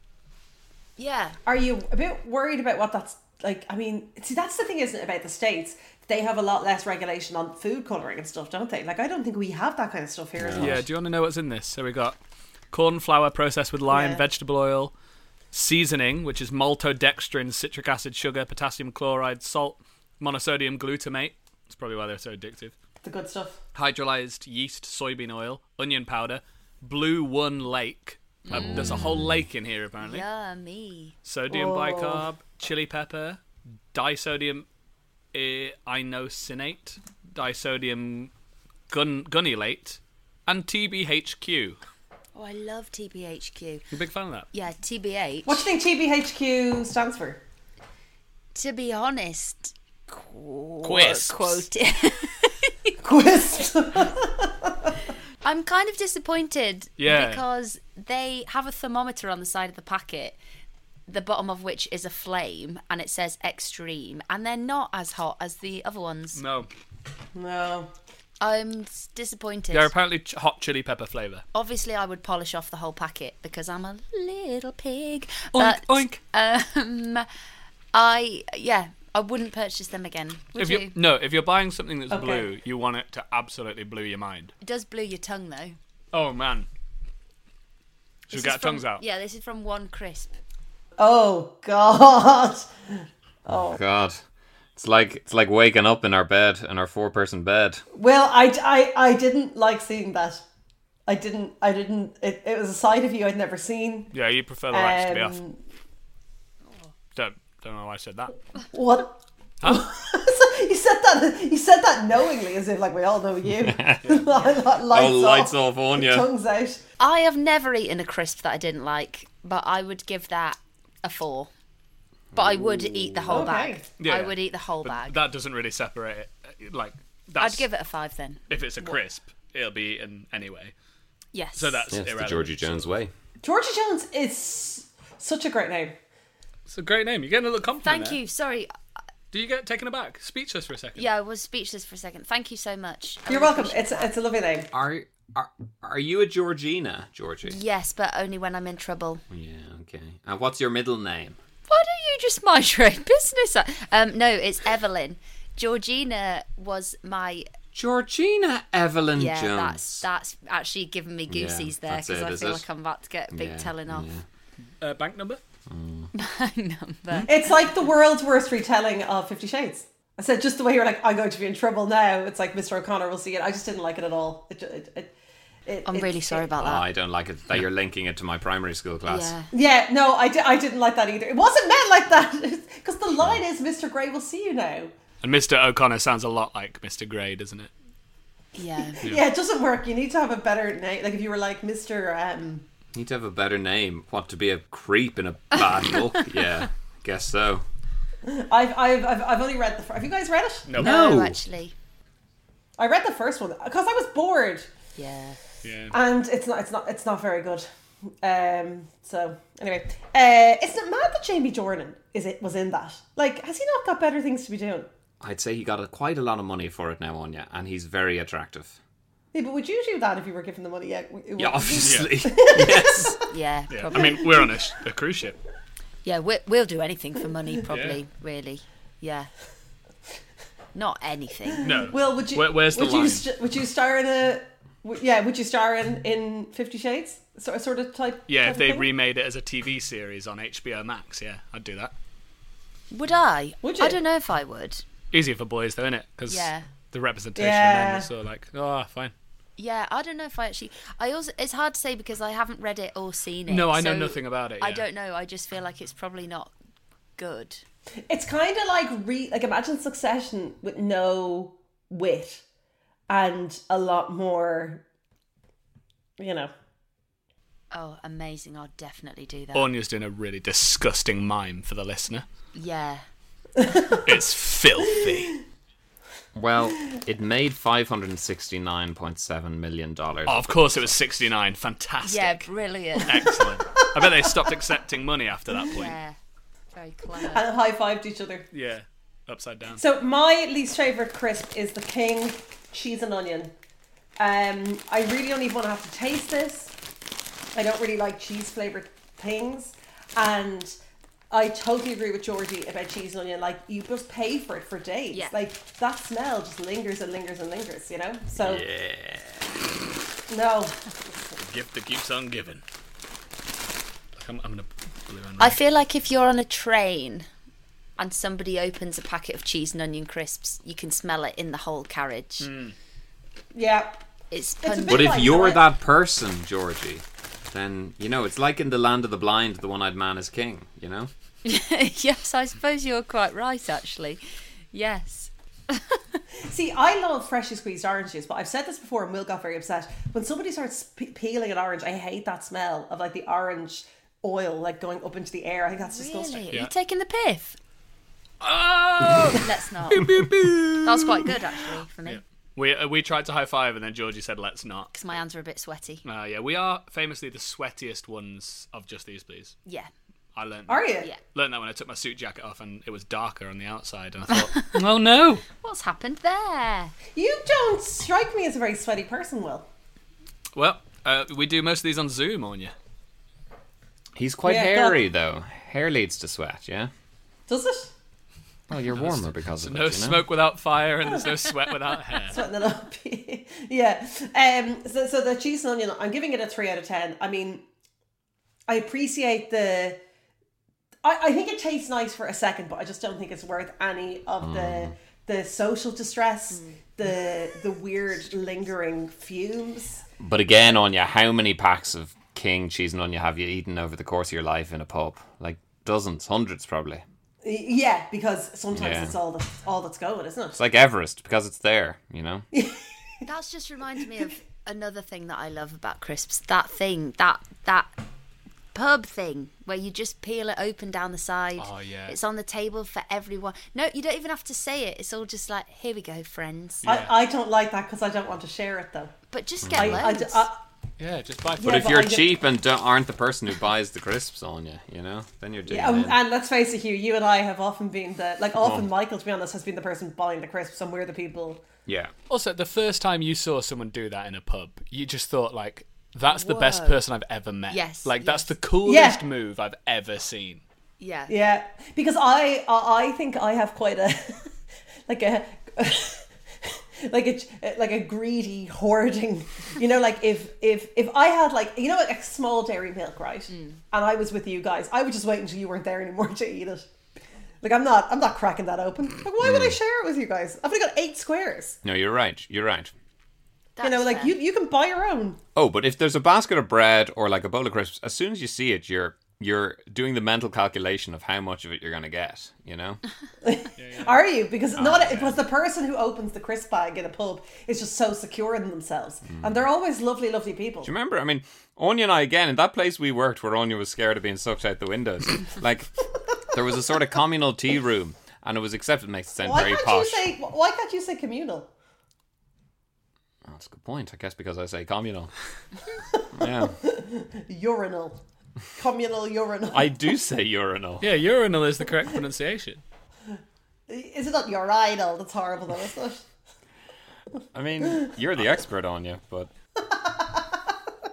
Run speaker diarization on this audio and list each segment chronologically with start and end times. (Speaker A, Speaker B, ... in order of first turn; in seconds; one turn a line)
Speaker A: 1.0-1.4
Speaker B: 1.4-10.8
Speaker C: 10.4-10.8
Speaker D: 10.6-12.2
Speaker D: 12.7-14.9
Speaker B: 13.9-14.2
Speaker D: 15.5-22.7
Speaker B: 23.0-23.6
Speaker D: 23.7-30.2
Speaker A: 28.4-29.3
Speaker A: 30.0-31.1
Speaker D: 31.2-33.4
Speaker B: 31.5-32.2
Speaker D: 33.9-34.6
Speaker D: 35.3-38.3
Speaker D: 38.9-41.8
Speaker A: 42.3-43.8
Speaker D: 43.9-44.5
Speaker A: 44.5-45.7
Speaker B: 45.5-47.4
Speaker A: 48.5-52.9
Speaker D: 50.8-51.7
Speaker B: 53.0-54.9
Speaker A: 55.4-60.4
Speaker D: 57.0-57.4
Speaker A: 61.1-66.4
Speaker D: 66.3-66.7
Speaker B: 67.3-67.9
Speaker A: 68.4-69.9
Speaker D: 69.7-71.4
Speaker A: 71.5-77.3
Speaker D: 75.5-76.2
Speaker A: 77.9-80.9
Speaker D: 80.5-84.5
Speaker B: 82.1-82.5
Speaker A: 84.6-85.8
Speaker D: 86.1-86.7
Speaker D: 88.3-89.0
Speaker A: 88.3-90.3
Speaker B: 91.0-92.7
Speaker B: 93.5-93.8
Speaker C: 93.5-94.2
Speaker C: 94.8-97.8
Speaker B: 97.9-100.4
Speaker B: 101.1-104.1
Speaker D: 104.1-105.4
Speaker B: 104.7-105.6
Speaker D: 107.1-108.3
Speaker B: 108.7-116.8
Speaker C: 113.6-114.0
Speaker D: 114.0-114.3
Speaker C: 114.9-116.3
Speaker A: 117.0-121.5
Speaker A: 122.3-125.2
Speaker C: 122.3-123.5
Speaker B: 123.3-123.8
Speaker D: 124.0-127.7
Speaker A: 127.4-128.4
Speaker D: 128.5-130.7
Speaker A: 131.3-131.8
Speaker D: 131.6-132.9
Speaker C: 131.9-133.1
Speaker B: 133.4-136.0
Speaker D: 136.7-138.2
Speaker A: 137.8-138.7
Speaker D: 139.3-141.1
Speaker A: 140.9-144.1
Speaker B: 143.3-144.7
Speaker C: 144.7-147.6
Speaker A: 147.4-149.2
Speaker C: 149.3-151.4
Speaker A: 151.7-157.5
Speaker C: 157.7-160.1
Speaker A: 159.2-164.1
Speaker C: 161.3-162.6
Speaker C: 163.3-164.2
Speaker D: 164.8-165.4
Speaker C: 165.7-166.1
Speaker A: 166.1-167.3
Speaker B: 167.2-175.1
Speaker B: 175.7-176.5
Speaker A: 175.8-176.8
Speaker C: 176.6-179.3
Speaker A: 179.1-179.5
Speaker B: 179.5-184.9
Speaker D: 185.2-187.7
Speaker A: 188.5-189.0
Speaker B: 189.0-192.6
Speaker C: 192.9-197.6
Speaker B: 198.2-200.8
Speaker D: 200.7-201.1
Speaker A: 200.8-201.7
Speaker C: 200.8-201.4
Speaker B: 202.8-204.7
Speaker A: 204.9-205.4
Speaker D: 205.6-205.9
Speaker B: 205.9-207.7
Speaker B: 208.2-214.9
Speaker C: 215.2-218.8
Speaker B: 219.3-223.2
Speaker C: 221.4-223.2
Speaker D: 221.8-222.1
Speaker A: 223.3-224.3
Speaker D: 223.7-225.4
Speaker B: 223.9-224.7
Speaker A: 226.0-229.3
Speaker D: 227.7-228.0
Speaker A: 230.7-231.7
Speaker B: 231.6-238.9
Speaker D: 231.6-233.2
Speaker D: 238.3-241.9
Speaker A: 242.9-244.8
Speaker B: 243.6-244.0
Speaker D: 245.1-249.1
Speaker A: 246.3-246.6
Speaker B: 247.4-248.1
Speaker A: 249.6-256.5
Speaker D: 253.5-254.8
Speaker A: 257.2-257.6
Speaker B: 258.1-262.4
Speaker B: 263.1-264.8
Speaker B: 266.2-266.5
Speaker A: 267.7-269.7
Speaker D: 269.5-272.2
Speaker A: 272.5-273.0
Speaker B: 273.6-274.0
Speaker D: 274.0-275.4
Speaker C: 276.3-280.5
Speaker D: 280.3-282.5
Speaker A: 282.0-283.3
Speaker D: 283.0-285.9
Speaker B: 283.1-284.3
Speaker A: 285.7-286.2
Speaker A: 286.7-287.4
Speaker B: 287.2-288.5
Speaker D: 288.5-289.8
Speaker B: 289.7-293.5
Speaker B: 294.2-296.7
Speaker B: 297.5-300.8
Speaker B: 301.3-308.6
Speaker A: 305.1-305.4
Speaker C: 308.4-309.2
Speaker D: 308.4-309.5
Speaker B: 310.3-310.9
Speaker D: 311.4-312.6
Speaker D: 314.1-315.6
Speaker A: 315.4-317.3
Speaker A: 318.0-322.5
Speaker D: 322.4-322.7
Speaker B: 323.5-324.0
Speaker A: 324.3-325.5
Speaker B: 324.6-325.6
Speaker C: 324.9-331.1
Speaker A: 331.4-334.2
Speaker A: 334.7-336.0
Speaker B: 336.4-346.4
Speaker A: 345.8-347.6
Speaker D: 348.4-351.3
Speaker A: 349.4-350.2
Speaker A: 350.8-352.2
Speaker D: 352.0-354.9
Speaker A: 354.9-356.0
Speaker D: 356.0-359.6
Speaker A: 359.6-359.9
Speaker D: 360.3-365.4
Speaker B: 360.7-361.1
Speaker A: 365.6-366.9
Speaker B: 367.1-369.6
Speaker D: 370.5-372.7
Speaker C: 374.1-376.9
Speaker B: 374.4-375.0
Speaker B: 377.5-377.9
Speaker C: 378.7-380.2
Speaker D: 378.9-382.4
Speaker B: 382.3-387.6
Speaker B: 388.7-390.0
Speaker B: 391.0-400.0
Speaker C: 394.4-394.9
Speaker A: 396.5-396.8
Speaker C: 400.2-407.0
Speaker B: 407.4-410.6
Speaker C: 408.7-409.1
Speaker C: 410.6-412.4
Speaker B: 412.5-412.9
Speaker A: 413.2-417.9
Speaker A: 418.7-426.9
Speaker D: 421.6-422.1
Speaker D: 426.8-427.1
Speaker B: 426.8-429.1
Speaker A: 429.3-430.5
Speaker C: 429.6-430.0
Speaker B: 429.8-430.6
Speaker D: 431.0-431.9
Speaker B: 431.6-432.4
Speaker C: 431.6-436.2
Speaker B: 435.7-441.6
Speaker C: 438.6-438.9
Speaker C: 441.9-442.1
Speaker D: 442.3-450.6
Speaker A: 446.3-447.0
Speaker A: 447.7-448.5
Speaker B: 448.8-449.2
Speaker A: 451.0-451.3
Speaker B: 451.3-454.5
Speaker B: 455.1-466.9
Speaker B: 467.6-471.8
Speaker C: 469.4-469.8
Speaker C: 471.8-472.9
Speaker A: 473.8-474.4
Speaker B: 473.8-475.4
Speaker C: 475.5-483.0
Speaker B: 483.4-490.9
Speaker D: 483.8-484.2
Speaker C: 484.8-485.4
Speaker C: 489.2-489.6
Speaker C: 490.8-495.9
Speaker C: 496.5-500.3
Speaker B: 499.4-501.7
Speaker C: 503.4-505.3
Speaker B: 506.1-508.2
Speaker C: 506.4-506.7
Speaker B: 508.7-509.9
Speaker C: 509.7-511.1
Speaker D: 511.0-512.8
Speaker B: 513.9-516.2
Speaker C: 517.5-519.5
Speaker B: 519.8-520.8